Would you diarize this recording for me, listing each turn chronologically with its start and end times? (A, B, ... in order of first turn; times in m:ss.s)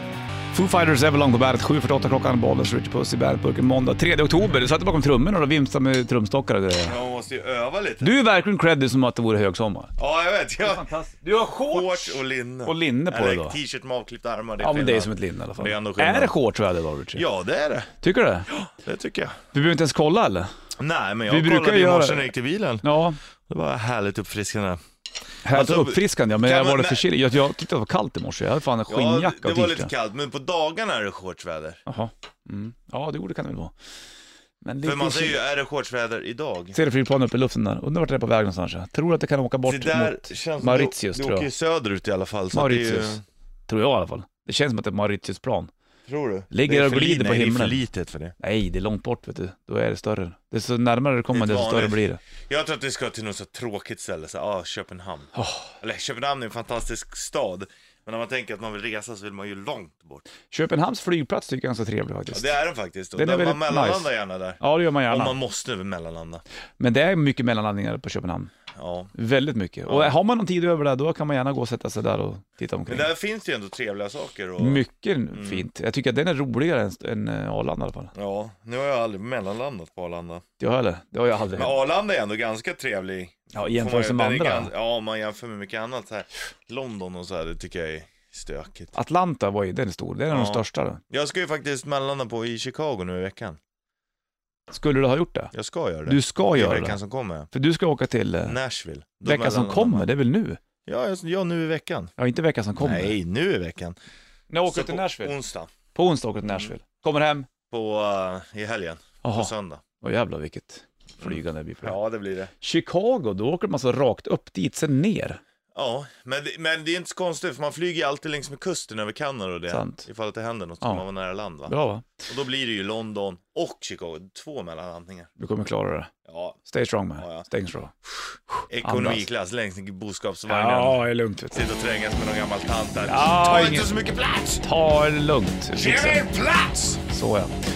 0:00.5-0:07.0 A
0:06.8-0:08.1 B
0:08.0-0:09.9 A
0:10.0-0:10.9 B
0:10.6-0:13.6 A
0:11.6-0:16.3 B
0:14.6-0:17.2 A
0:17.1-0:17.9 B
0:18.0-0:18.6 A
0:18.8-0:19.4 B
0:19.5-0:20.5 A
0:20.8-0:22.8 B
0:21.3-0:23.2 A
0:23.5-0:24.8 B
0:25.4-0:29.9 A
0:25.5-0:27.1 B
0:28.9-0:31.8 B
0:31.9-0:33.7 A
0:34.6-0:35.4 A
0:34.8-0:36.8 B
0:36.7-0:41.5 A
0:39.6-0:43.2 B
0:42.5-0:45.7 A
0:46.1-0:48.3 B
0:46.5-0:47.8 A
0:48.4-0:52.2 A
0:51.3-0:55.3 B
0:55.4-0:55.7 A
0:55.8-1:00.2 B
1:00.5-1:02.5 A
1:02.3-1:06.4 B
1:03.2-1:05.4 A
1:06.8-1:08.5 A
1:08.8-1:09.1 B
1:09.1-1:13.1 A
1:09.9-1:10.2 B
1:12.9-1:14.8 B
1:14.6-1:18.1 A
1:15.3-1:15.6 B
1:18.1-1:20.4 B
1:20.6-1:21.7 A
1:21.5-1:28.9 B
1:23.5-1:24.7 A
1:28.9-1:31.0 A
1:30.3-1:33.6 B
1:34.7-1:35.5 A
1:35.5-1:37.5 B
1:36.0-1:37.0 A
1:37.5-1:38.5 A
1:38.4-1:40.1 B
1:39.2-1:40.6 A
1:40.8-1:42.1 B
1:42.2-1:43.2 A
1:42.8-1:44.0 B
1:44.5-1:45.3 A
1:44.6-1:45.7 B
1:45.9-1:47.5 A
1:46.4-1:46.7 B
1:47.7-1:49.8 B
1:49.2-1:52.0 A
1:51.2-1:52.5 B
1:52.6-1:55.4 A
1:55.7-2:01.7 B
1:59.7-2:00.0 A
2:01.7-2:02.0 A
2:02.3-2:05.3 B
2:05.4-2:06.1 A
2:06.2-2:06.6 B
2:06.6-2:07.9 A
2:07.2-2:07.4 B
2:08.7-2:14.6 B
2:08.8-2:09.2 A
2:10.5-2:11.6 A
2:13.0-2:13.9 A
2:14.6-2:16.2 A
2:15.7-2:17.0 B
2:17.1-2:17.5 A